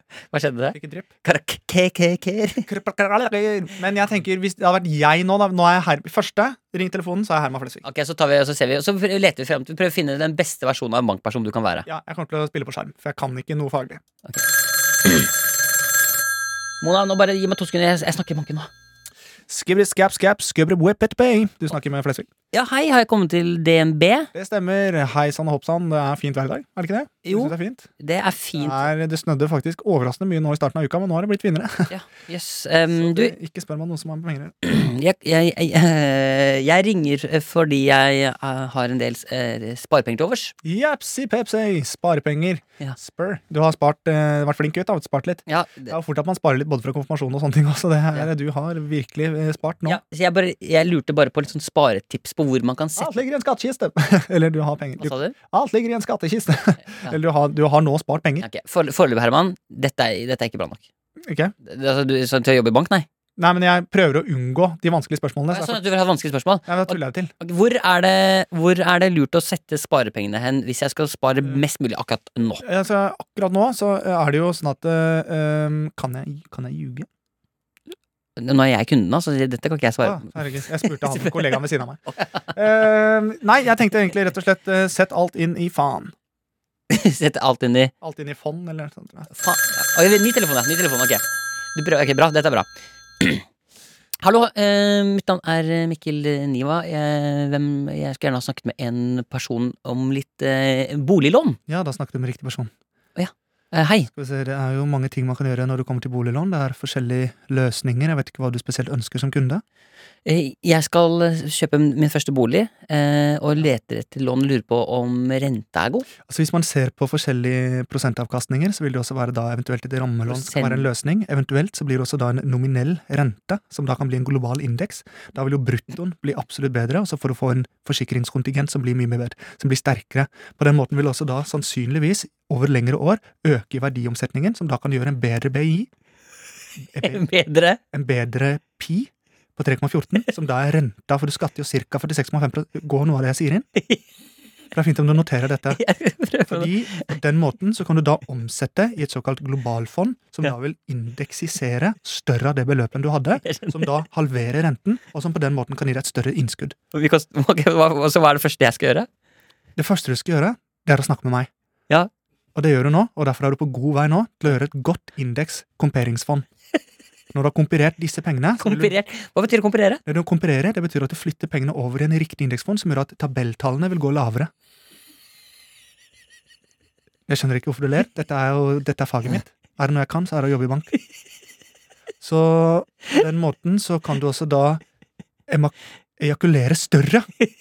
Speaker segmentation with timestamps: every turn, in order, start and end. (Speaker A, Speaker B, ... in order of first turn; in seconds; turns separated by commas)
Speaker A: 0.3-2.7, Speaker B: 0.7-1.1, Speaker B: 2.7-7.8, Speaker A: 7.8-11.9, Speaker B: 11.9-14.0, Speaker A: 15.0-15.3, Speaker A: 16.8-18.7, Speaker B: 19.5-22.3, Speaker A: 22.5-24.3, Speaker B: 24.3-27.9, Speaker A: 27.2-28.9, Speaker B: 28.6-31.9, Speaker A: 31.9-33.3, Speaker B: 33.0-34.5, Speaker A: 34.6-40.5, Speaker B: 40.6-50.0, Speaker A: 45.5-46.0, Speaker A: 49.9-53.2, Speaker B: 53.0-58.5, Speaker A: 55.0-55.4, Speaker A: 58.4-60.8, Speaker B: 61.2-61.5, Speaker A: 61.6-63.1, Speaker B: 63.4-65.8, Speaker A: 65.5-72.6, Speaker B: 66.7-67.3, Speaker B: 72.6-77.1, Speaker A: 78.4-80.4, Speaker B: 80.0-82.0, Speaker A: 80.9-82.4, Speaker B: 82.5-86.1, Speaker A: 86.9-87.9, Speaker B: 88.0-89.3, Speaker A: 89.4-91.2, Speaker A: 91.8-92.7, Speaker A: 93.2-93.5, Speaker A: 94.2-101.6, Speaker B: 101.7-102.7, Speaker A: 103.2-104.1, Speaker B: 104.1-109.6, Speaker A: 110.2-116.1, Speaker B: 116.3-135.9, Speaker A: 120.3-120.9, Speaker B: 136.8-137.2, Speaker A: 137.0-137.8, Speaker B: 137.9-143.7, Speaker A: 143.8-144.0, Speaker B: 144.7-145.8, Speaker A: 145.7-147.1, Speaker B: 146.5-156.8, Speaker A: 153.4-154.0, Speaker A: 156.9-159.1, Speaker B: 159.8-161.5, Speaker B: 162.6-166.5, Speaker B: 167.3-168.9, Speaker A: 168.6-170.0, Speaker B: 170.1-174.5, Speaker B: 177.3-180.9, Speaker B: 182.2-184.8, Speaker B: 185.5-187.3